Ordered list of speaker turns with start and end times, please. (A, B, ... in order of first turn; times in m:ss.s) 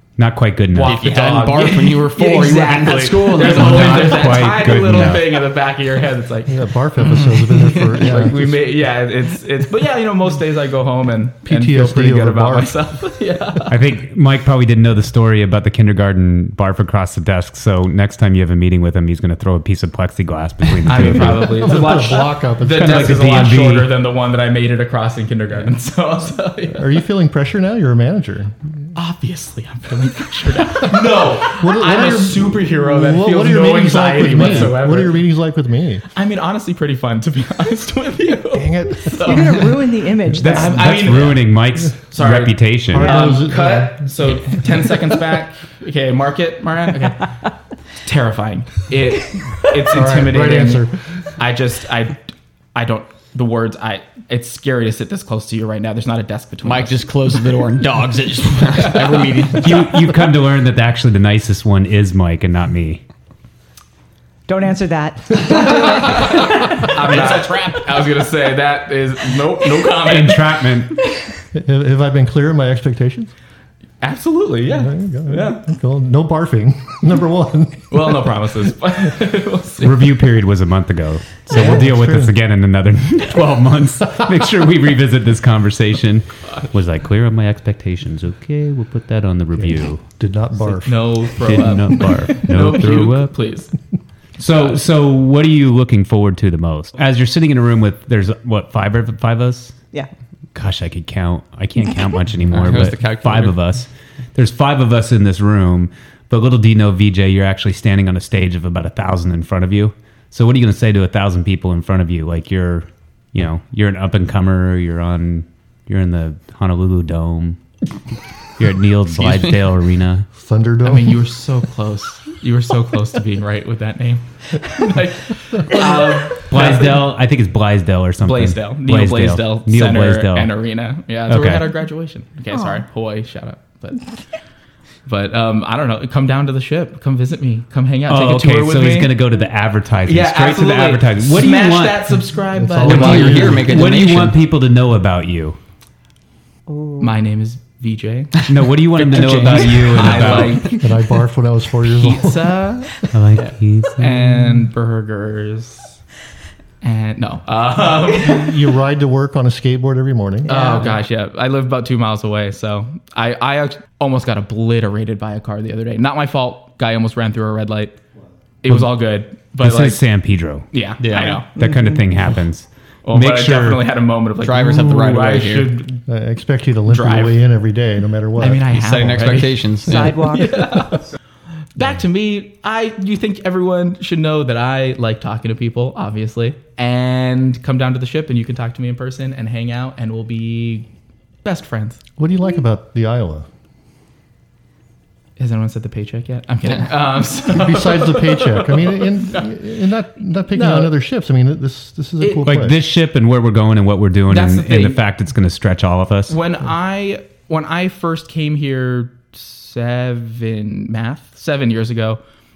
0:00.2-0:01.0 A
0:00.7-0:06.6 B
0:00.8-0:04.4 C
0:03.3-0:05.4 A
0:06.5-0:08.6 D
0:07.2-0:08.2 C
0:07.9-0:13.8 B
0:11.4-0:12.8 D
0:13.7-0:21.8 A
0:20.9-0:26.9 B
0:20.9-0:23.4 D
0:22.8-0:23.9 A
0:26.7-0:28.6 D
0:29.0-0:35.2 B
0:30.9-0:36.1 D
0:36.1-0:39.7 B
0:38.5-0:39.7 D
0:39.1-0:41.0 E
0:40.3-0:43.2 A
0:40.4-0:47.4 B
0:42.9-0:45.2 D
0:47.9-0:57.1 B
0:49.9-0:51.0 D
0:56.6-1:00.1 C
0:59.6-1:03.0 A
1:04.5-1:06.9 E
1:05.9-1:10.5 B
1:06.8-1:08.0 C
1:10.0-1:11.0 A
1:11.5-1:13.3 D
1:14.0-1:15.6 B
1:14.7-1:18.3 D
1:17.9-1:20.1 B
1:19.8-1:30.0 A
1:21.5-1:22.4 D
1:29.6-1:31.7 D
1:30.6-1:33.7 B
1:31.4-1:33.3 A
1:34.4-1:39.8 A
1:34.4-1:34.8 B
1:40.5-1:57.6 A
1:42.5-1:43.6 C
1:58.5-2:00.3 A
1:59.2-1:59.5 C
2:00.4-2:01.2 D
2:00.8-2:07.0 B
2:06.5-2:10.5 A
2:08.2-2:14.1 B
2:11.3-2:11.6 A
2:15.1-2:19.1 B
2:18.1-2:22.1 A
2:20.0-2:23.7 B
2:22.6-2:24.0 D
2:22.8-2:24.4 C
2:22.8-2:25.6 A
2:26.7-2:27.1 E
2:27.0-2:30.8 B
2:28.5-2:30.7 A
2:30.2-2:32.8 D
2:31.9-2:33.0 B
2:33.1-2:34.7 A
2:34.0-2:36.0 B
2:36.8-2:38.5 B
2:38.1-2:40.8 D
2:40.4-2:48.0 B
2:40.5-2:40.9 E
2:48.6-2:50.0 B
2:49.6-2:50.7 A
2:50.7-2:51.5 B
2:51.0-2:51.4 C
2:51.6-2:53.8 A
2:53.0-2:56.0 B
2:54.4-2:55.7 C
2:56.1-2:58.6 D
2:56.9-2:57.4 B
2:58.4-3:01.1 B
2:58.7-3:00.3 C
2:59.8-3:00.9 E
3:01.8-3:10.9 B
3:11.4-3:12.0 B
3:12.2-3:13.5 D
3:15.4-3:19.5 B
3:17.4-3:22.8 D
3:20.5-3:20.9 B
3:22.2-3:22.5 B
3:22.4-3:26.4 A
3:24.3-3:25.0 B
3:26.3-3:32.2 B